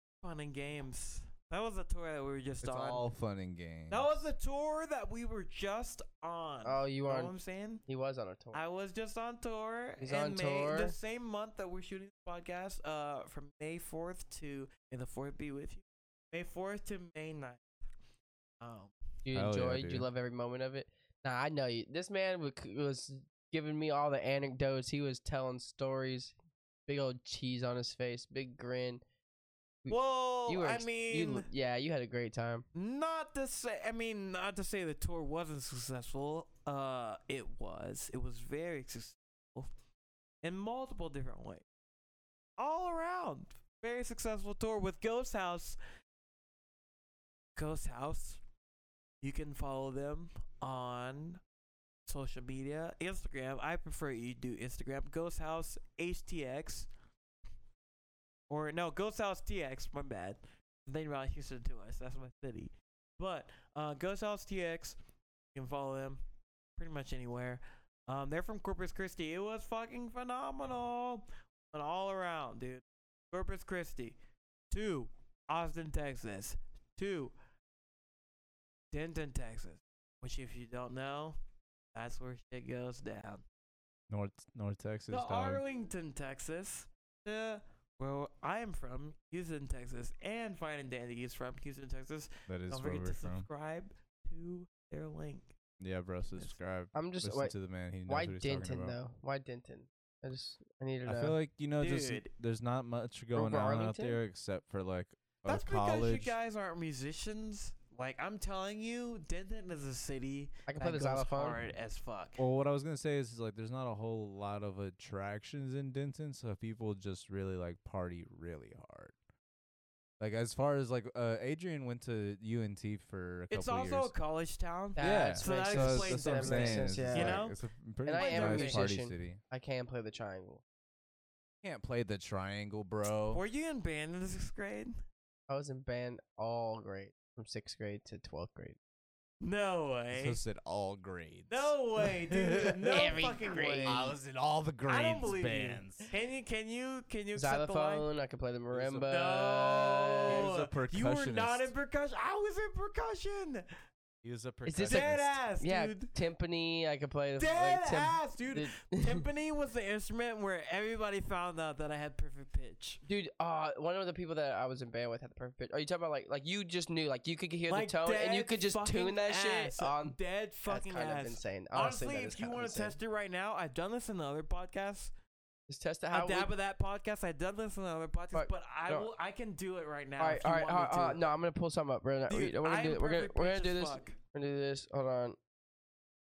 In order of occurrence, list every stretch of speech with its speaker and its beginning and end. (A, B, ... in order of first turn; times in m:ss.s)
0:00.2-0:03.0 A
0:02.6-0:04.3 B
0:03.9-0:07.8 A
0:06.6-0:07.3 C
0:07.9-0:08.6 C
0:08.5-0:17.6 A
0:10.0-0:11.0 C
0:18.6-0:18.9 A
0:19.3-0:26.4 C
0:19.4-0:20.1 B
0:26.9-0:29.0 C
0:29.8-0:32.7 C
0:29.9-0:31.5 A
0:32.8-0:39.7 A
0:40.4-0:41.6 A
0:42.6-0:45.8 A
0:47.6-0:48.4 A
0:49.2-0:51.4 A
0:52.1-0:56.9 A
0:58.5-1:05.0 A
1:05.5-1:06.2 A
1:06.8-1:14.2 A
1:14.7-1:17.3 A
1:18.9-1:21.4 A
1:22.0-1:23.4 A
1:24.1-1:25.6 B
1:25.1-1:35.6 A
1:32.5-1:33.5 B
1:35.8-1:39.0 B
1:36.9-1:37.5 C
1:38.1-1:41.4 C
1:41.0-1:46.4 B
1:41.8-1:42.3 A
1:43.4-1:44.2 C
1:45.5-1:52.4 A
1:50.7-1:51.6 C
1:52.4-1:59.2 B
2:00.2-2:04.1 B
2:03.5-2:07.6 A
2:05.0-2:07.4 C
2:05.0-2:09.4 B
2:08.1-2:10.6 C
2:08.2-2:08.9 A
2:11.6-2:13.4 B
2:13.3-2:15.0 A
2:15.5-2:18.8 C
2:19.4-2:20.4 A
2:20.1-2:23.1 B
2:21.5-2:24.1 A
2:22.9-2:24.1 C
2:23.8-2:26.1 B
2:24.9-2:28.1 A
2:27.4-2:30.5 C
2:28.7-2:29.2 B
2:29.1-2:33.7 A
2:30.3-2:31.7 B
2:34.2-2:35.4 B
2:34.7-2:39.2 C
2:34.9-2:36.1 A
2:37.4-2:43.0 A
2:43.1-2:53.0 C
2:47.7-2:55.1 A
2:55.7-2:56.5 C
2:56.1-3:01.2 A
2:58.3-2:59.1 C
3:00.2-3:05.4 C
3:02.3-3:04.2 A